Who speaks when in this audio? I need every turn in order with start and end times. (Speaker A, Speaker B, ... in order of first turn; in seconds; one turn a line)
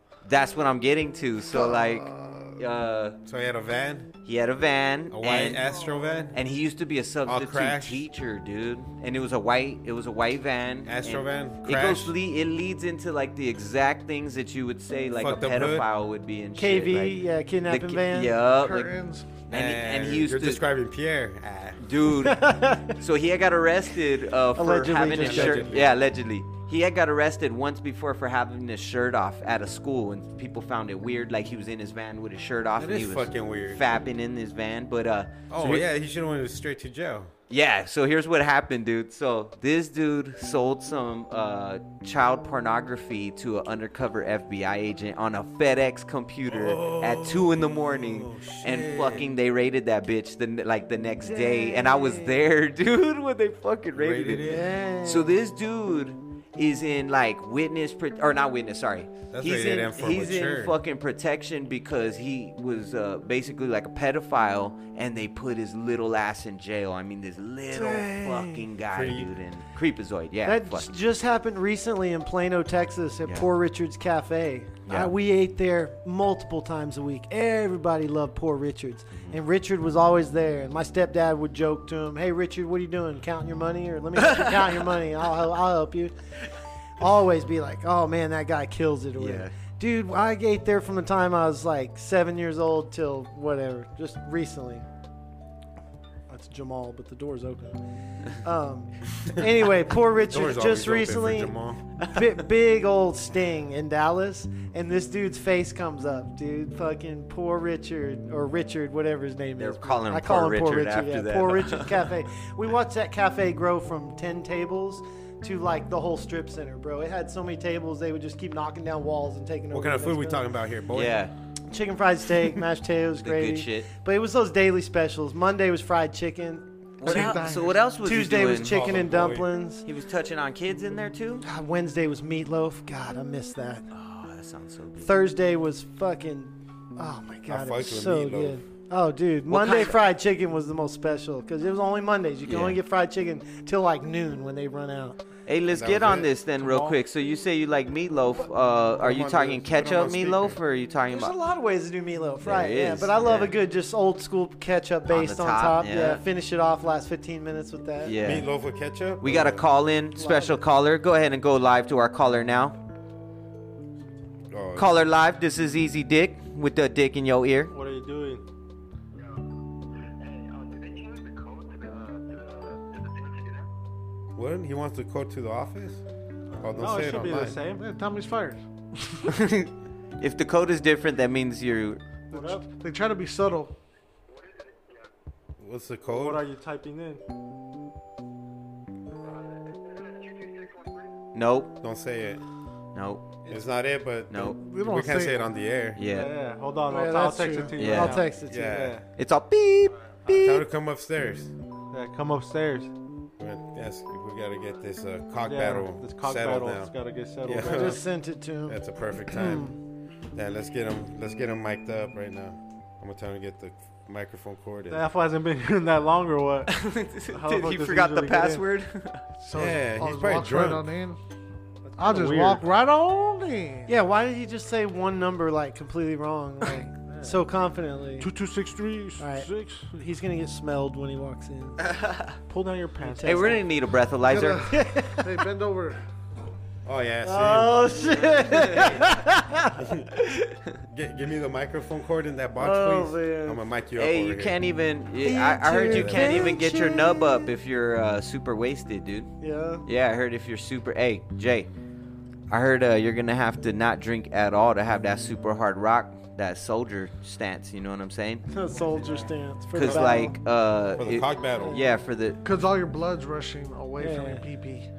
Speaker A: 0.2-3.2
Speaker B: 1.5-2.6
Speaker C: 3.2-4.1
Speaker A: 4.2-5.6
Speaker C: 5.1-6.4
Speaker A: 6.3-18.9
Speaker C: 7.2-8.1
Speaker C: 10.9-12.1
Speaker C: 15.2-15.9
Speaker D: 16.6-18.3
Speaker B: 18.5-19.3
Speaker A: 19.4-20.6
Speaker C: 19.5-21.9
Speaker A: 21.8-35.9
Speaker D: 22.2-23.0
Speaker D: 24.6-25.7
Speaker C: 25.1-25.9
Speaker C: 32.8-33.8
Speaker C: 35.5-37.3
Speaker A: 37.5-70.9
Speaker C: 46.5-49.3
Speaker D: 51.2-52.4
Speaker C: 53.9-54.7
Speaker D: 54.4-55.4
Speaker C: 59.3-60.7
Speaker D: 67.7-68.6
Speaker C: 68.9-69.3
Speaker D: 70.4-86.1
Speaker A: 79.1-79.4
Speaker A: 84.2-84.8
Speaker D: 87.0-94.9
Speaker A: 89.2-89.5
Speaker D: 96.3-120.4
Speaker C: 100.3-101.8
Speaker A: 109.6-112.0
Speaker C: 119.7-121.2
Speaker A: 120.9-121.3
Speaker D: 121.7-129.8
Speaker A: 123.2-123.9
Speaker A: 127.0-128.8
Speaker B: 127.0-127.8
Speaker C: 128.4-129.5
Speaker A: 129.8-131.4
Speaker D: 131.4-133.9
Speaker A: 133.9-135.1
Speaker D: 135.0-145.2
Speaker C: 137.5-138.6
Speaker A: 139.5-140.0
Speaker A: 142.5-142.8
Speaker A: 145.5-151.3
Speaker C: 145.7-146.3
Speaker E: 146.6-146.9
Speaker C: 149.0-150.6
Speaker D: 151.1-158.1
Speaker A: 152.4-153.5
Speaker A: 155.1-156.2
Speaker A: 158.0-158.5
Speaker C: 158.2-159.6
Speaker A: 159.2-162.8
Speaker D: 160.2-160.6
Speaker C: 164.5-164.9
Speaker A: 164.8-167.7
Speaker E: 167.7-168.4
Speaker C: 174.3-176.0
Speaker C: 176.6-177.6
Speaker E: 176.7-177.9
Speaker B: 177.7-179.3
Speaker A: 179.3-182.0
Speaker B: 182.3-183.7
Speaker D: 182.3-182.6
Speaker C: 185.6-186.4
Speaker E: 186.1-187.2
Speaker A: 191.3-191.8
Speaker C: 191.8-192.4
Speaker A: 192.9-193.4
Speaker C: 193.5-196.0
Speaker A: 194.3-194.6
Speaker B: 194.6-195.6
Speaker A: 195.9-196.3
Speaker E: 196.0-199.1
Speaker D: 196.9-198.8
Speaker A: 197.8-198.2
Speaker C: 198.5-199.0
Speaker A: 199.2-200.7
Speaker C: 200.3-201.5
Speaker E: 201.9-202.9
Speaker C: 203.4-206.9
Speaker E: 205.4-208.0
Speaker C: 207.4-208.0
Speaker D: 207.6-209.8
Speaker C: 208.7-209.7
Speaker C: 210.3-215.1
Speaker E: 214.9-218.6
Speaker A: 216.7-219.2
Speaker B: 219.4-221.2
Speaker C: 219.5-220.9
Speaker E: 221.9-222.6
Speaker B: 222.0-223.9
Speaker D: 223.9-228.3
Speaker E: 227.1-227.4
Speaker E: 228.2-229.9
Speaker D: 229.2-231.9
Speaker A: 231.8-232.4
Speaker E: 232.5-233.6
Speaker D: 233.0-233.6
Speaker A: 233.2-234.7
Speaker B: 234.2-236.0
Speaker D: 234.4-235.3
Speaker C: 236.8-237.9
Speaker D: 237.2-239.8
Speaker A: 238.5-239.0
Speaker C: 239.8-240.1
Speaker A: 240.3-240.6
Speaker C: 240.9-244.6
Speaker D: 242.6-243.6
Speaker A: 243.9-249.3
Speaker D: 245.2-247.4
Speaker C: 245.9-246.3
Speaker D: 249.4-249.9
Speaker A: 249.8-251.7
Speaker A: 252.5-258.4
Speaker D: 258.5-260.4
Speaker A: 259.7-262.4
Speaker C: 259.8-260.4
Speaker C: 260.9-261.8
Speaker D: 261.6-261.8
Speaker B: 262.4-264.9
Speaker D: 264.0-264.4